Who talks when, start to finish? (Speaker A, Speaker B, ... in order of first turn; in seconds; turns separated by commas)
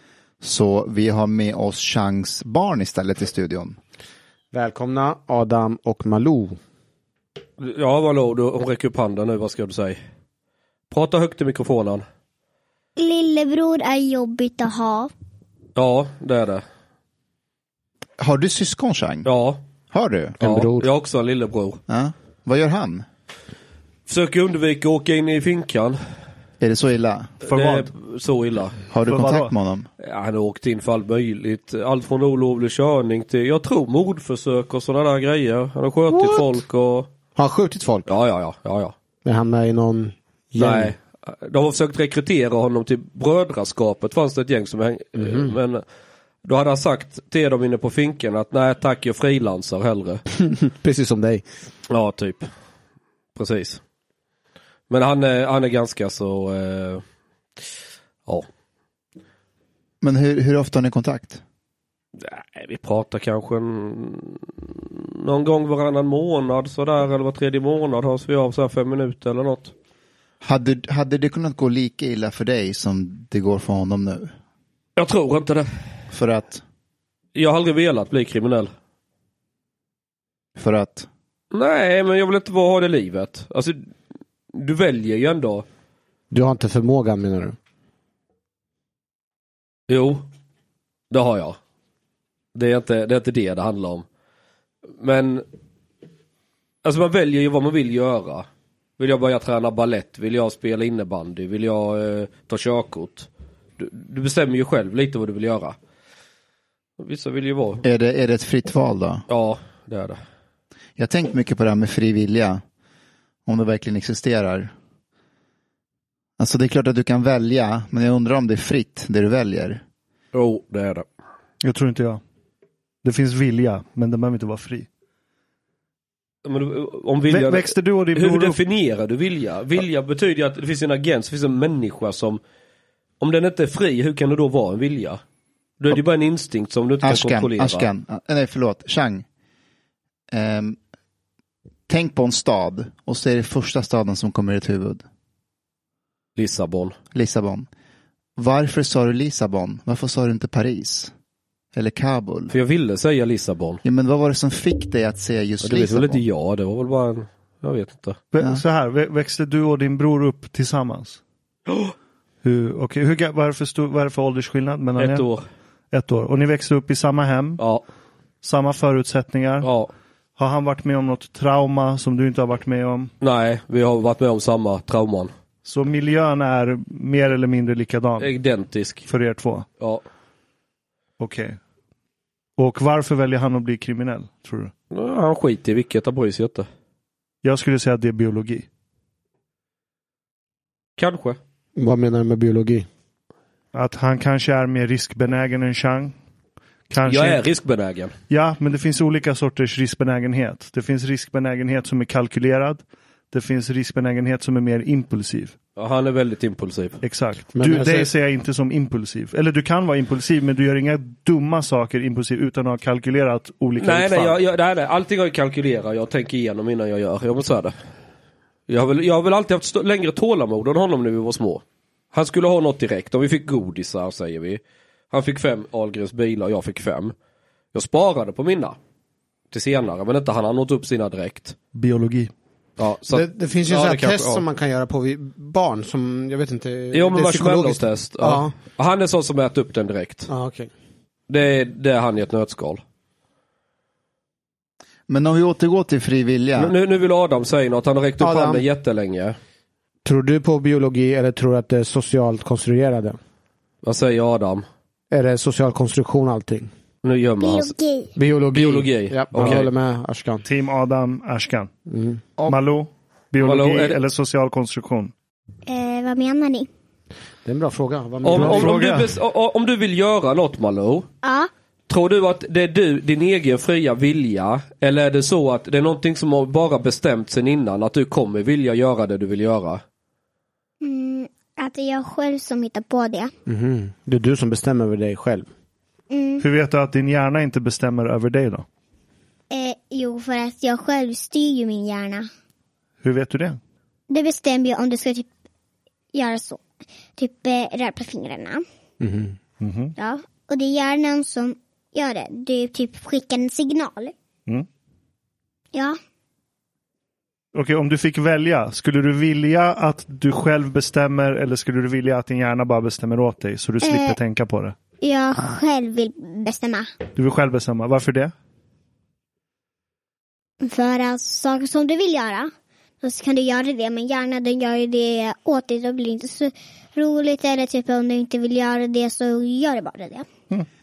Speaker A: 0.4-3.8, Speaker B: 4.5-6.6, Speaker C: 7.6-10.0, Speaker C: 10.9-12.0, Speaker D: 13.0-15.1, Speaker C: 15.8-16.6, Speaker A: 18.2-19.3, Speaker C: 19.2-19.6, Speaker A: 19.9-20.4, Speaker B: 20.4-20.9, Speaker C: 20.4-21.8, Speaker A: 21.9-23.0, Speaker C: 24.1-26.0, Speaker A: 26.6-27.4, Speaker C: 27.4-28.8, Speaker E: 27.5-27.9, Speaker A: 28.9-29.9, Speaker E: 29.1-29.5, Speaker C: 30.0-37.1, Speaker B: 36.1-36.5, Speaker B: 37.4-38.0, Speaker C: 38.0-38.9, Speaker B: 39.2-40.9, Speaker C: 40.6-45.8, Speaker B: 45.2-45.5, Speaker C: 46.4-50.2, Speaker B: 50.6-51.4, Speaker C: 51.9-52.5, Speaker C: 53.4-53.8, Speaker C: 54.9-57.0, Speaker A: 60.0-61.4, Speaker C: 62.2-69.7, Speaker A: 70.4-74.3, Speaker C: 75.0-75.7, Speaker A: 76.1-76.6, Speaker C: 77.3-78.7, Speaker A: 80.5-81.1, Speaker C: 81.5-83.8, Speaker C: 84.5-85.6, Speaker B: 86.3-87.5, Speaker C: 89.9-90.2, Speaker C: 91.1-91.6, Speaker C: 92.5-94.0, Speaker C: 95.0-95.4, Speaker C: 96.8-98.5, Speaker C: 99.0-103.3, Speaker C: 103.8-105.8, Speaker C: 107.0-107.8, Speaker A: 107.8-109.2, Speaker C: 109.3-110.2, Speaker A: 111.0-112.6, Speaker A: 113.5-114.7, Speaker A: 116.4-119.8, Speaker C: 120.3-121.0, Speaker E: 121.6-122.2, Speaker E: 123.0-124.9, Speaker C: 126.4-132.4, Speaker E: 127.3-128.6, Speaker C: 133.2-135.2, Speaker C: 135.8-137.9, Speaker A: 137.0-139.2, Speaker A: 140.3-140.8, Speaker A: 141.9-145.0, Speaker C: 146.4-146.9, Speaker A: 147.1-147.7, Speaker A: 148.4-151.1, Speaker A: 151.7-152.5, Speaker C: 152.5-153.8, Speaker A: 153.8-156.2, Speaker C: 155.6-158.2, Speaker E: 158.3-161.2, Speaker A: 158.4-158.6, Speaker C: 161.7-161.9, Speaker E: 162.4-165.3, Speaker C: 165.0-165.4, Speaker E: 165.9-167.6, Speaker C: 167.6-167.8, Speaker E: 168.4-169.7, Speaker C: 169.6-169.9, Speaker E: 170.4-173.1, Speaker C: 173.2-175.3, Speaker E: 175.6-178.3, Speaker C: 178.2-179.1, Speaker E: 179.1-179.7, Speaker E: 181.2-181.6, Speaker E: 182.6-184.7, Speaker C: 184.9-186.7, Speaker E: 187.4-188.7, Speaker C: 191.0-191.4, Speaker B: 191.8-192.9, Speaker E: 193.7-196.1, Speaker E: 196.9-197.4, Speaker C: 197.0-198.1, Speaker E: 198.3-205.5, Speaker C: 205.8-207.0, Speaker E: 207.0-214.4, Speaker B: 207.5-208.1, Speaker C: 213.8-217.7, Speaker C: 218.7-227.1, Speaker C: 227.7-228.8, Speaker C: 229.5-231.6, Speaker E: 231.7-232.3, Speaker C: 232.8-234.4, Speaker B: 233.1-238.5, Speaker C: 236.9-240.3, Speaker B: 240.3-240.7, Speaker C: 241.3-242.8, Speaker A: 245.1-246.7, Speaker C: 246.6-249.3, Speaker B: 248.2-248.6, Speaker B: 250.0-253.2, Speaker C: 253.8-254.6, Speaker B: 255.1-256.7, Speaker C: 257.0-257.7, Speaker D: 257.4-258.1, Speaker B: 258.1-260.4, Speaker C: 258.5-259.7, Speaker E: 259.4-259.6, Speaker E: 260.4-261.7, Speaker B: 261.9-262.2, Speaker E: 262.5-265.1, Speaker C: 263.4-264.0, Speaker D: 265.7-266.7, Speaker B: 267.4-268.8, Speaker C: 268.2-271.1, Speaker E: 268.3-269.1, Speaker D: 271.2-271.5, Speaker C: 271.9-279.8, Speaker D: 280.8-283.3, Speaker B: 283.5-285.5, Speaker D: 286.1-286.4, Speaker E: 286.4-288.6, Speaker D: 289.5-292.3, Speaker E: 293.0-293.6, Speaker D: 294.1-295.3, Speaker D: 296.1-296.6, Speaker D: 297.2-298.6, Speaker B: 299.0-299.4, Speaker E: 299.6-299.9, Speaker D: 300.0-304.1, Speaker E: 307.5-314.8, Speaker D: 313.8-314.2, Speaker D: 315.0-316.9, Speaker E: 317.1-318.3, Speaker D: 320.6-330.3